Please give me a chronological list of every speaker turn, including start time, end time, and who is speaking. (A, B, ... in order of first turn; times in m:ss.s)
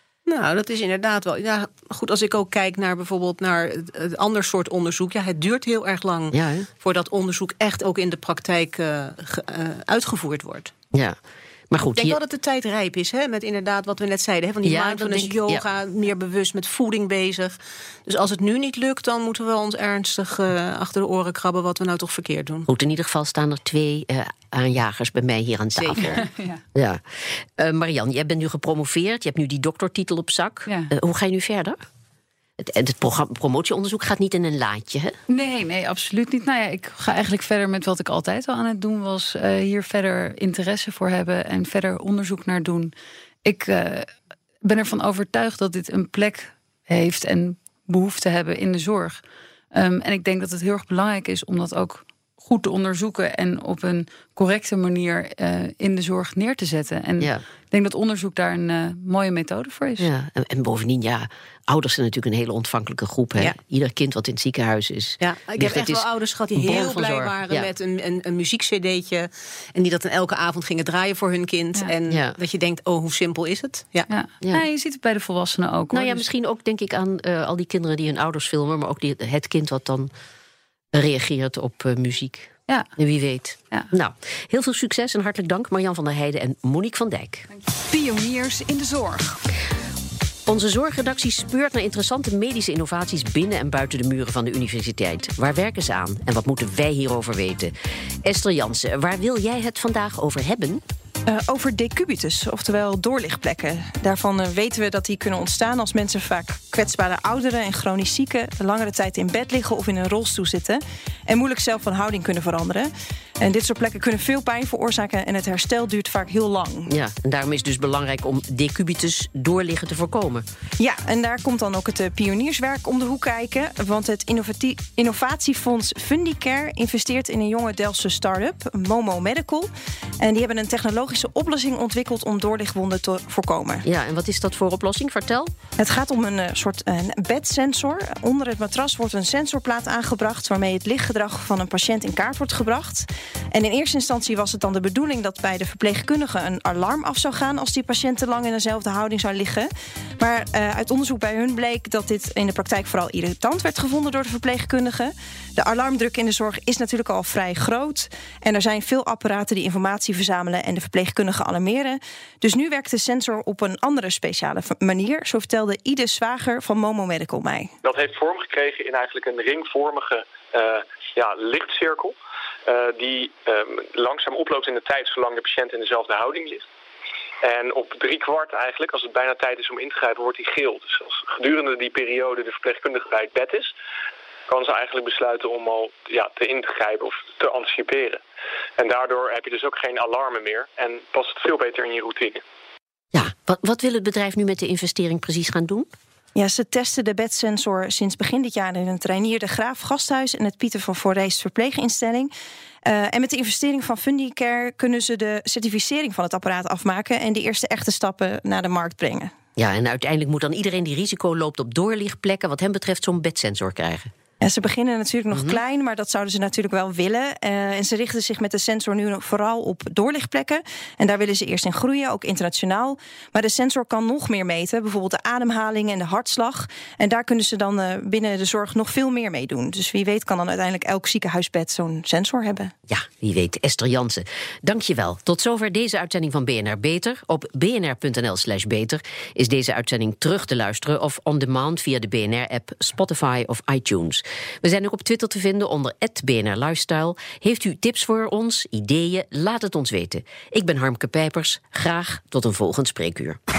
0:00.3-0:10.7 A
0:06.3-0:06.7 B
0:11.7-0:12.2 B
0:11.8-0:22.7 A
0:14.6-0:15.6 B
0:22.7-0:26.2 B
0:25.8-0:26.3 A
0:26.0-0:26.6 C
0:26.7-0:31.8 B
0:30.6-0:30.9 C
0:32.6-0:35.2 B
0:35.3-0:42.9 C
0:43.4-0:44.1 C
0:44.6-1:00.1 C
1:00.0-1:07.7 B
1:05.2-1:14.1 A
1:12.1-1:12.4 B
1:14.1-1:16.2 C
1:15.9-1:20.1 B
1:20.9-1:27.5 B
1:27.5-1:29.4 C
1:30.4-1:37.7 B
1:38.2-1:40.8 B
1:41.3-1:56.9 D
1:56.9-2:00.4 B
2:00.8-2:09.7 D
2:10.2-2:13.8 D
2:13.8-2:15.5 B
2:15.8-2:47.7 D
2:47.8-2:56.6 E
2:57.4-3:03.7 E
3:04.5-3:08.2 E
3:08.8-3:12.4 E
3:13.1-3:15.9 B
3:16.3-3:22.3 D
3:22.8-3:29.3 D
3:29.6-3:34.1 B
3:34.4-3:52.7 D
3:35.3-3:35.6 B
3:52.9-4:13.4 B